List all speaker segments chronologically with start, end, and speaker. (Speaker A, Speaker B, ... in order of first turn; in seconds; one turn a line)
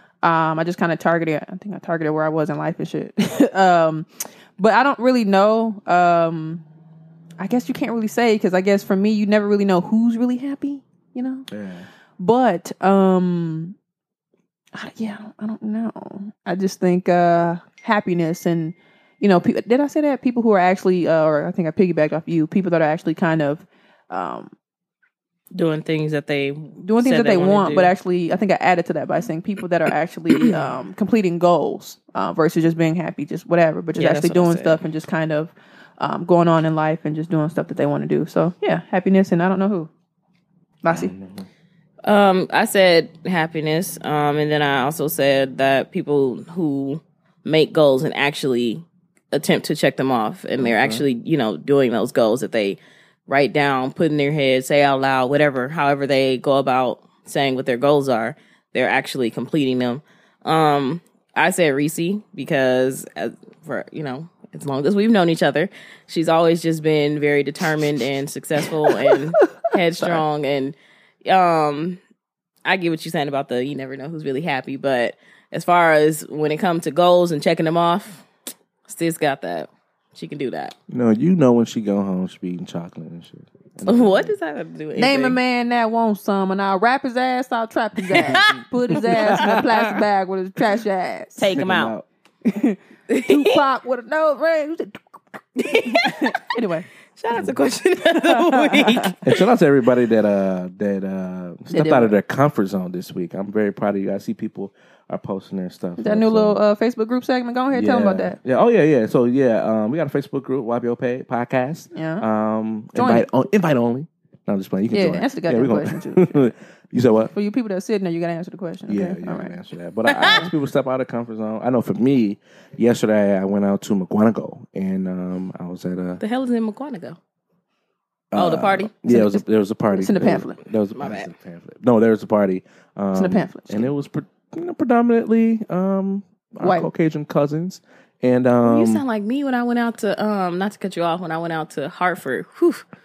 Speaker A: 0.2-6.6
Speaker A: 7.4-11.5
Speaker B: 11.5-11.9
Speaker A: 12.2-13.8
Speaker A: 14.7-24.5
Speaker C: 25.5-27.9
Speaker A: 26.8-39.9
Speaker C: 34.0-34.8
Speaker A: 40.8-41.1
Speaker B: 40.9-41.5
Speaker C: 42.0-72.0
Speaker B: 50.6-51.0
Speaker C: 72.7-78.2
Speaker C: 78.9-80.8
Speaker B: 80.9-84.3
Speaker C: 83.9-85.4
Speaker A: 85.0-91.5
Speaker C: 88.1-88.5
Speaker B: 88.2-89.9
Speaker C: 91.4-91.9
Speaker B: 91.5-92.1
Speaker A: 92.5-95.0
Speaker C: 93.1-93.6
Speaker C: 95.6-96.4
Speaker A: 95.8-96.9
Speaker C: 97.2-99.3
Speaker A: 98.2-99.1
Speaker B: 99.2-106.6
Speaker A: 101.7-102.2
Speaker A: 106.0-108.4
Speaker B: 107.7-117.3
Speaker A: 111.9-112.3
Speaker A: 112.9-113.3
Speaker A: 114.9-116.5
Speaker A: 117.3-119.6
Speaker B: 118.9-126.2
Speaker C: 120.1-120.5
Speaker C: 126.2-127.2
Speaker B: 128.3-139.0
Speaker C: 128.3-129.1
Speaker A: 129.1-129.4
Speaker A: 129.9-130.6
Speaker C: 131.0-131.3
Speaker A: 133.2-133.9
Speaker A: 136.6-136.9
Speaker C: 138.7-142.8